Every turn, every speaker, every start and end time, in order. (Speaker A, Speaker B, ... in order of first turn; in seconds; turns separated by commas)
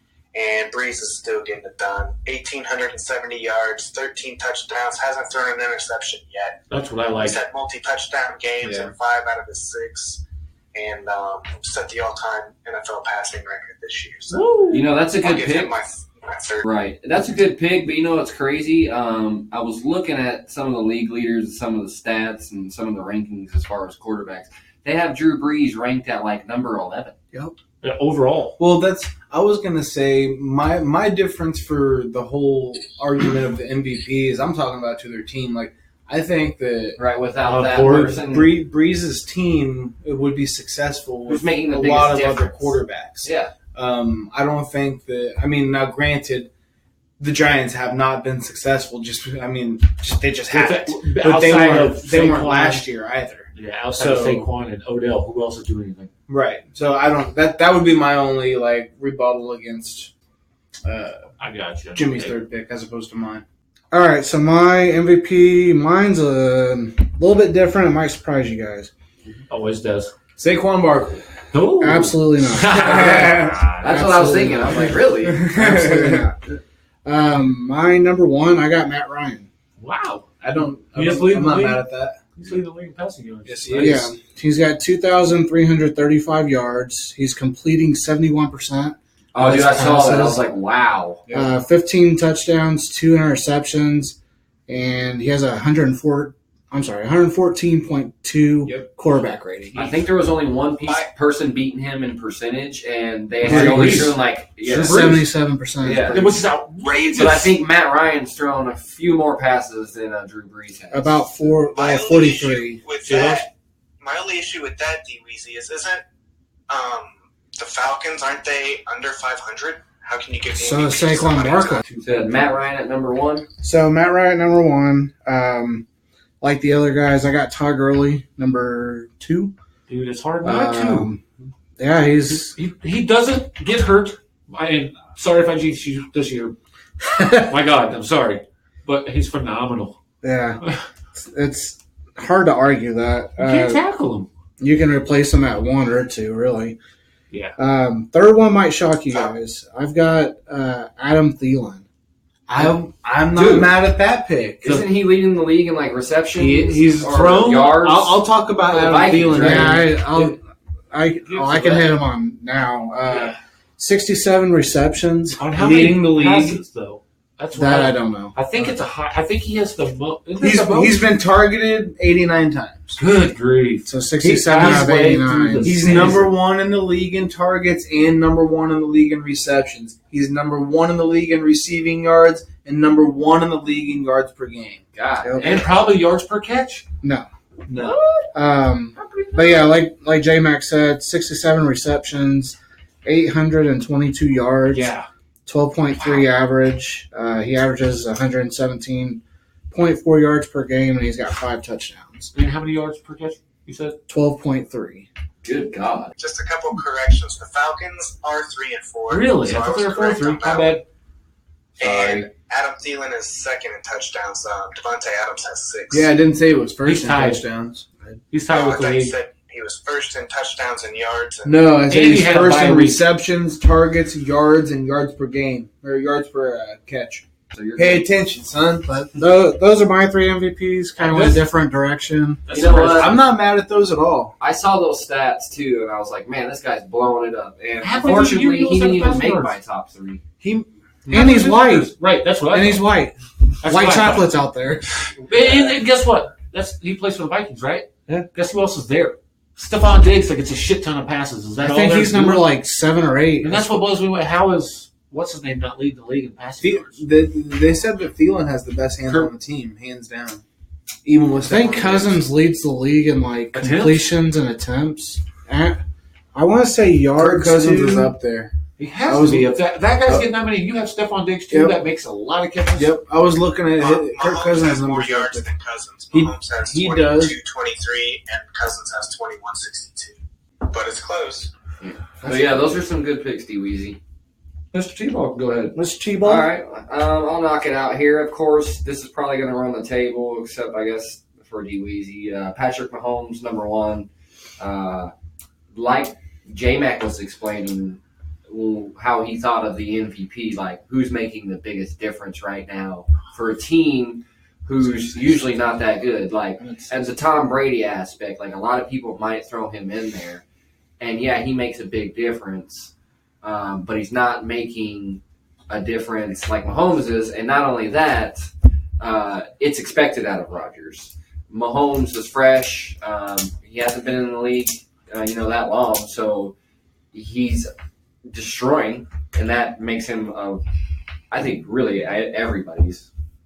Speaker A: 0.3-6.6, Speaker B: 6.7-7.4, Speaker A: 7.2-10.2, Speaker C: 8.6-8.9, Speaker A: 10.7-14.5, Speaker B: 14.3-14.8, Speaker D: 14.7-15.7, Speaker A: 15.2-16.6, Speaker D: 16.6-27.1, Speaker B: 27.8-28.6, Speaker C: 28.6-37.0, Speaker D: 37.0-38.6, Speaker B: 37.4-38.2, Speaker C: 37.8-46.5, Speaker D: 41.3-43.5, Speaker C: 47.2-54.5, Speaker B: 50.5-52.9, Speaker B: 53.5-56.1, Speaker C: 56.3-60.1, Speaker C: 60.8-61.3, Speaker B: 61.4-62.4, Speaker C: 61.9-63.4, Speaker E: 63.9-68.9, Speaker B: 69.5-70.1, Speaker C: 70.4-71.2, Speaker B: 71.5-74.1, Speaker E: 71.8-79.5, Speaker C: 72.7-73.6, Speaker D: 73.8-75.4, Speaker C: 75.2-76.3, Speaker B: 79.8-80.2, Speaker C: 80.4-82.2, Speaker B: 80.9-81.8, Speaker B: 82.3-84.1, Speaker C: 83.4-84.1, Speaker E: 83.8-90.4, Speaker D: 89.3-91.2, Speaker E: 91.3-94.2, Speaker E: 94.7-99.8, Speaker B: 99.7-100.1, Speaker D: 99.8-105.1, Speaker B: 103.4-104.2, Speaker E: 103.4-106.3, Speaker B: 104.7-105.3, Speaker D: 105.8-106.2, Speaker B: 106.0-107.6, Speaker D: 107.2-111.5, Speaker E: 110.9-112.8, Speaker A: 111.7-113.5, Speaker B: 113.0-113.4, Speaker A: 114.0-116.0, Speaker A: 116.7-121.8, Speaker E: 120.6-121.8, Speaker B: 121.8-122.5, Speaker D: 122.0-123.5, Speaker E: 123.6-125.8, Speaker E: 126.4-129.5, Speaker B: 129.9-131.1, Speaker E: 130.4-131.2, Speaker E: 131.8-132.5, Speaker B: 132.3-136.6, Speaker E: 137.0-137.5, Speaker B: 137.4-140.0, Speaker E: 140.2-140.6, Speaker E: 141.1-143.8, Speaker B: 143.4-144.3, Speaker E: 144.6-146.8, Speaker E: 147.6-151.8, Speaker A: 149.1-149.3, Speaker C: 152.5-154.6, Speaker D: 153.3-153.8, Speaker D: 154.6-160.0, Speaker C: 156.3-159.8, Speaker B: 157.1-157.8, Speaker E: 159.3-160.4, Speaker E: 160.9-165.4, Speaker B: 161.2-161.9, Speaker B: 163.1-163.3, Speaker B: 165.4-171.0, Speaker C: 165.6-166.6, Speaker E: 167.5-168.8, Speaker C: 170.3-173.0, Speaker B: 172.9-173.9, Speaker E: 173.8-176.2, Speaker C: 174.2-184.8, Speaker B: 174.5-176.3, Speaker D: 184.9-185.7, Speaker E: 185.2-185.7, Speaker B: 185.4-186.8, Speaker C: 187.7-188.0, Speaker B: 187.7-188.3, Speaker E: 188.3-194.9, Speaker B: 189.0-189.7, Speaker B: 194.7-195.1, Speaker E: 195.4-202.3, Speaker B: 195.9-196.3, Speaker B: 202.3-203.9, Speaker E: 204.1-205.1, Speaker D: 205.4-206.1, Speaker A: 206.2-210.8, Speaker B: 209.1-210.8, Speaker D: 211.8-212.3, Speaker A: 211.8-216.1, Speaker C: 215.9-217.9, Speaker B: 216.8-217.4, Speaker B: 218.3-219.1, Speaker A: 218.5-221.6, Speaker C: 221.4-227.2, Speaker B: 221.9-223.1, Speaker D: 227.5-228.0, Speaker C: 227.8-228.9, Speaker E: 228.9-232.4, Speaker B: 231.0-231.5, Speaker B: 232.4-233.2, Speaker D: 232.5-233.2, Speaker C: 232.9-234.3, Speaker D: 234.4-240.2, Speaker B: 237.8-239.6, Speaker C: 240.4-241.6, Speaker B: 241.1-242.9, Speaker E: 241.1-241.9, Speaker E: 242.5-244.9, Speaker B: 243.6-244.3, Speaker B: 245.0-252.5, Speaker E: 251.6-253.8, Speaker B: 253.4-257.0, Speaker C: 256.6-260.4, Speaker B: 259.1-259.3, Speaker C: 261.0-262.2, Speaker E: 261.4-265.8, Speaker B: 263.5-264.1, Speaker E: 266.3-268.1, Speaker C: 267.1-268.5, Speaker B: 268.8-272.9, Speaker C: 269.0-270.2, Speaker C: 271.5-271.8, Speaker C: 272.7-275.5, Speaker A: 273.8-281.5, Speaker C: 276.1-277.4, Speaker D: 281.8-284.0, Speaker E: 282.2-282.8, Speaker B: 284.7-285.7, Speaker E: 285.7-286.5, Speaker D: 286.2-294.1, Speaker D: 294.6-295.1, Speaker D: 295.7-310.4, Speaker E: 306.6-306.9, Speaker D: 311.0-312.9, Speaker D: 313.4-318.5, Speaker D: 319.0-326.5, Speaker D: 327.1-327.7, Speaker D: 328.3-330.6, Speaker D: 331.3-333.1